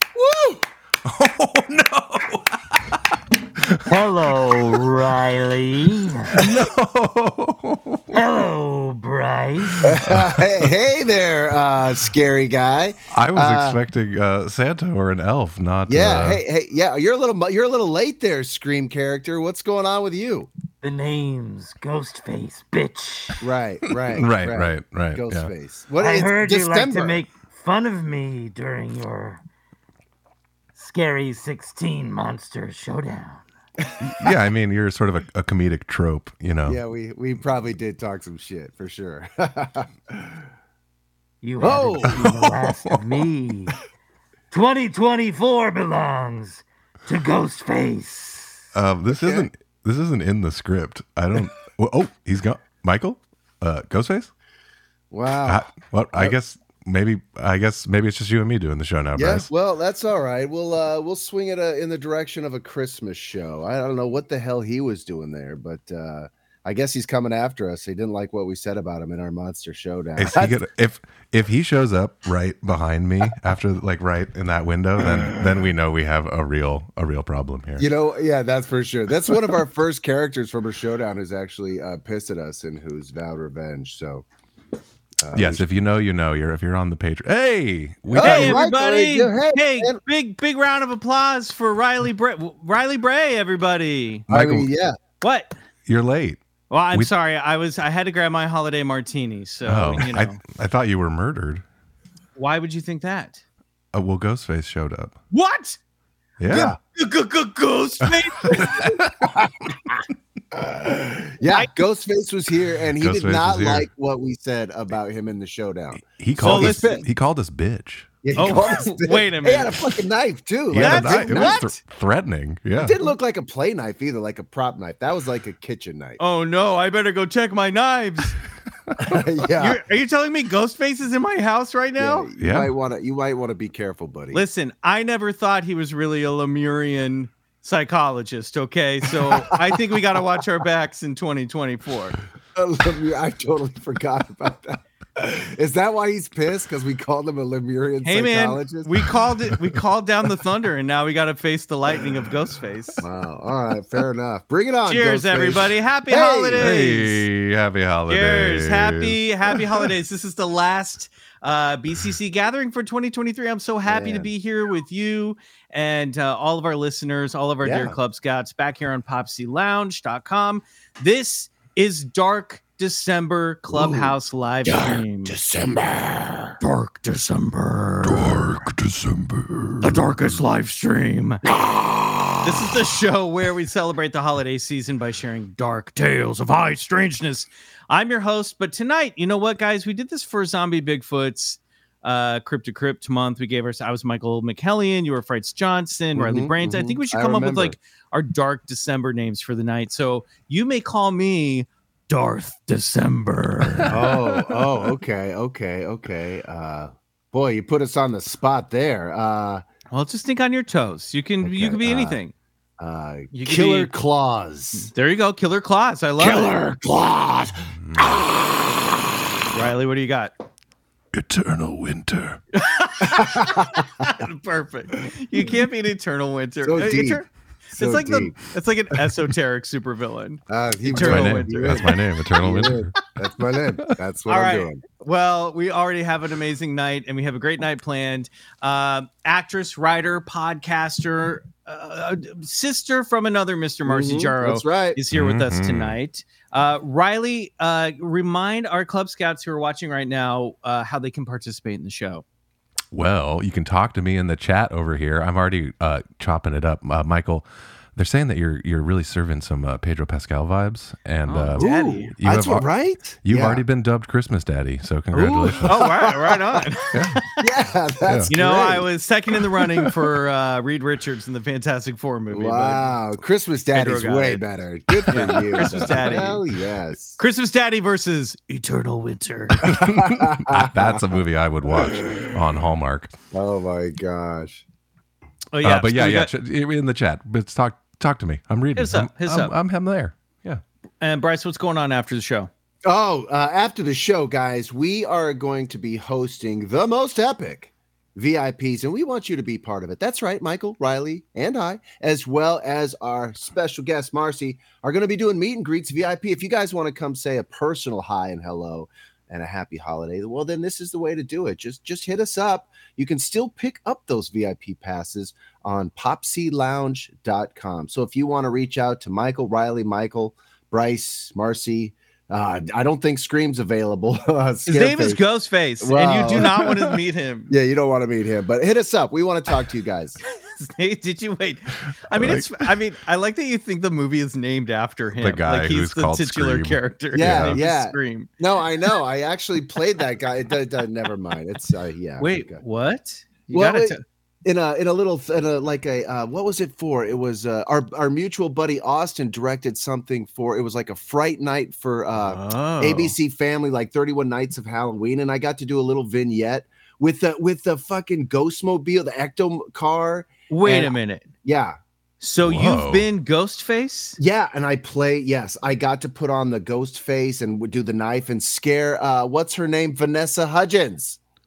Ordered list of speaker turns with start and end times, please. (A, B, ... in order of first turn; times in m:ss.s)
0:00.1-0:00.6 A
0:01.0-0:02.8 B
0:03.8-0:06.4 C
0:06.4-0:08.2 B
0:08.1-0:10.0 C
0:09.8-0:13.8 A
0:10.1-0:10.5 B
0:13.1-0:16.4 B
0:15.9-0:20.5 A
0:20.8-0:23.4 C
0:23.4-0:27.2 A
0:24.1-0:25.5 B
0:26.0-0:29.4 C
0:30.7-0:33.4 C
0:34.0-0:36.8 B
0:36.6-0:40.4 A
0:41.4-0:43.8 C
0:41.6-0:42.3 A
0:42.1-0:43.1 B
0:44.5-0:48.6 C
0:48.7-0:54.3 B
0:49.1-0:49.5 A
0:55.1-0:56.4 A
0:55.4-0:59.5 B
0:59.1-1:10.6 A
1:10.2-1:17.9 B
1:17.8-1:24.2 A
1:25.2-1:25.7 A
1:25.3-1:28.6 B
1:28.1-1:30.0 A
1:28.2-1:34.2 D
1:34.3-1:35.0 A
1:34.3-1:34.7 B
1:35.2-1:35.5 D
1:35.8-1:36.4 B
1:36.7-1:40.4 D
1:39.6-1:41.6 B
1:42.4-1:43.4 D
1:43.9-1:45.2 B
1:45.3-1:45.8 D
1:46.4-1:46.7 B
1:46.5-1:46.8 A
1:46.5-1:48.7 D
1:48.5-1:50.0 A
1:48.5-1:48.8 B
1:50.5-1:57.0 A
1:51.4-1:51.7 D
1:53.0-1:53.9 B
1:56.2-1:58.1 B
1:56.4-1:57.0 D
1:58.2-2:01.6 A
1:58.4-1:59.8 D
2:00.7-2:03.0 B
2:00.8-2:01.7 D
2:02.8-2:06.2 A
2:06.2-2:08.4 D
2:09.0-2:09.8 A
2:09.6-2:12.3 D
2:12.0-2:14.4 A
2:12.4-2:12.7 B
2:14.3-2:22.2 D
2:19.1-2:20.1 A
2:22.5-2:29.0 A
2:28.0-2:33.0 D
2:33.0-2:36.7 A
2:34.9-2:37.2 D
2:36.6-2:39.6 B
2:38.1-2:55.4 D
2:43.8-2:44.3 A
2:47.6-2:48.0 A
2:53.7-2:54.1 A
2:54.6-2:56.6 A
2:56.6-2:58.6 D
2:59.8-3:01.4 D
3:02.4-3:24.0 D
3:16.1-3:17.8 A
3:23.9-3:29.6 A
3:29.9-3:32.3 D
3:31.4-3:32.2 A
3:32.8-3:34.9 A
3:33.3-3:33.9 D
3:34.7-3:36.6 D
3:36.2-3:38.3 A
3:37.8-3:38.2 B
3:39.5-3:40.3 D
3:41.1-3:42.4 B
3:42.5-3:51.9 D
3:43.0-3:44.1 A
3:46.6-3:48.4 A
3:50.5-3:54.8 A
3:51.0-3:53.0 B
3:54.3-4:12.2 D
4:03.8-4:05.0 A
4:05.1-4:06.0 B
4:12.9-4:25.8 B
4:21.2-4:22.1 D
4:21.6-4:23.6 A
4:25.2-4:26.6 A
4:25.2-4:27.2 D
4:26.9-4:27.2 B
4:27.4-4:28.9 A
4:28.3-4:32.9 D
4:32.3-4:37.2 A
4:33.7-4:34.4 D
4:35.1-4:36.4 D
4:35.6-4:35.8 B
4:37.2-4:39.7 D
4:39.6-4:41.2 A
4:39.6-4:43.1 B
4:41.7-4:42.2 A
4:43.3-4:44.6 A
4:45.5-4:46.3 D
4:45.6-4:50.6 B
4:48.8-4:49.5 D
4:51.0-4:52.5 D
4:52.8-5:25.2 A
5:24.7-5:27.5 D
5:25.8-5:26.7 A
5:27.5-5:30.2 A
5:30.4-5:38.3 D
5:32.1-5:32.6 B
5:35.2-5:37.6 B
5:37.1-5:42.6 A
5:42.2-5:44.0 D
5:43.5-6:01.8 A
5:52.2-5:53.2 D
6:00.5-6:01.3 D
6:02.2-6:04.2 D
6:02.4-6:03.1 B
6:04.2-6:11.2 A